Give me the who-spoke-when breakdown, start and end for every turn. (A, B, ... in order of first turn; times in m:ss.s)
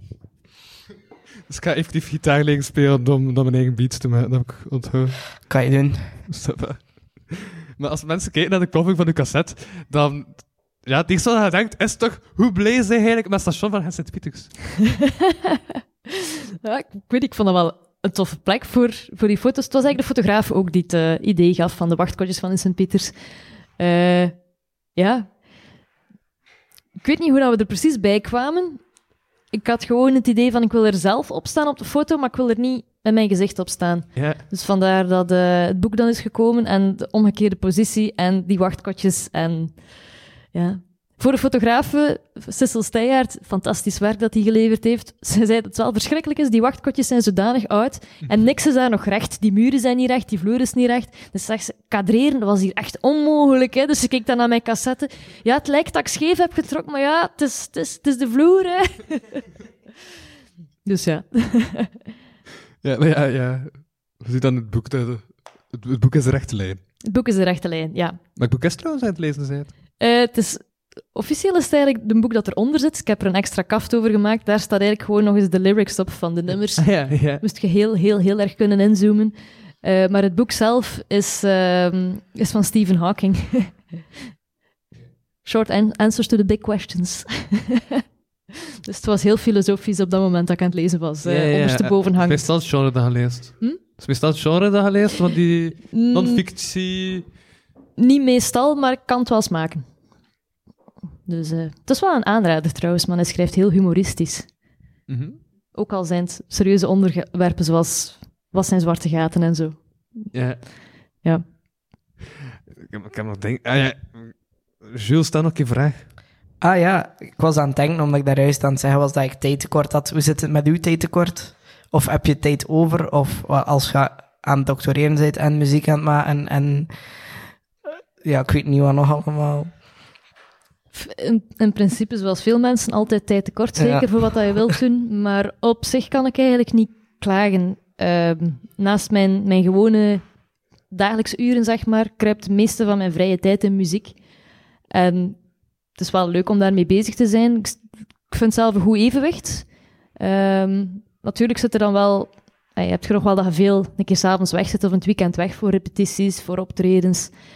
0:01.5-0:05.4 A
0:05.5-0:06.2 B
0:06.3-0:14.7 A
0:15.3-0:15.6 C
0:16.2-0:23.2 C
0:23.8-0:25.4 C
0:27.0-0:28.8 C
0:29.5-0:39.9 C
0:34.2-0:34.4 A
0:40.5-0:59.4 C
1:00.8-1:02.0 C
1:02.8-1:06.8 A
1:07.0-1:08.2 C
1:08.4-1:09.7 A
1:10.0-1:23.9 C
1:16.8-1:17.4 A
1:25.4-1:28.0 C
1:28.8-1:32.4 C
1:31.2-1:37.3 A
1:35.9-1:36.4 C
1:38.0-1:39.8 C
1:41.3-1:44.5 C
1:45.1-1:45.4 A
1:45.7-1:50.3 C
1:50.3-1:50.7 A
1:52.9-1:56.1 A
1:56.6-2:07.4 B
2:08.2-2:09.7 B
2:11.0-2:20.2 C
2:13.8-2:14.3 B
2:20.9-2:24.2 C
2:24.9-2:25.4 C
2:25.9-2:37.3 C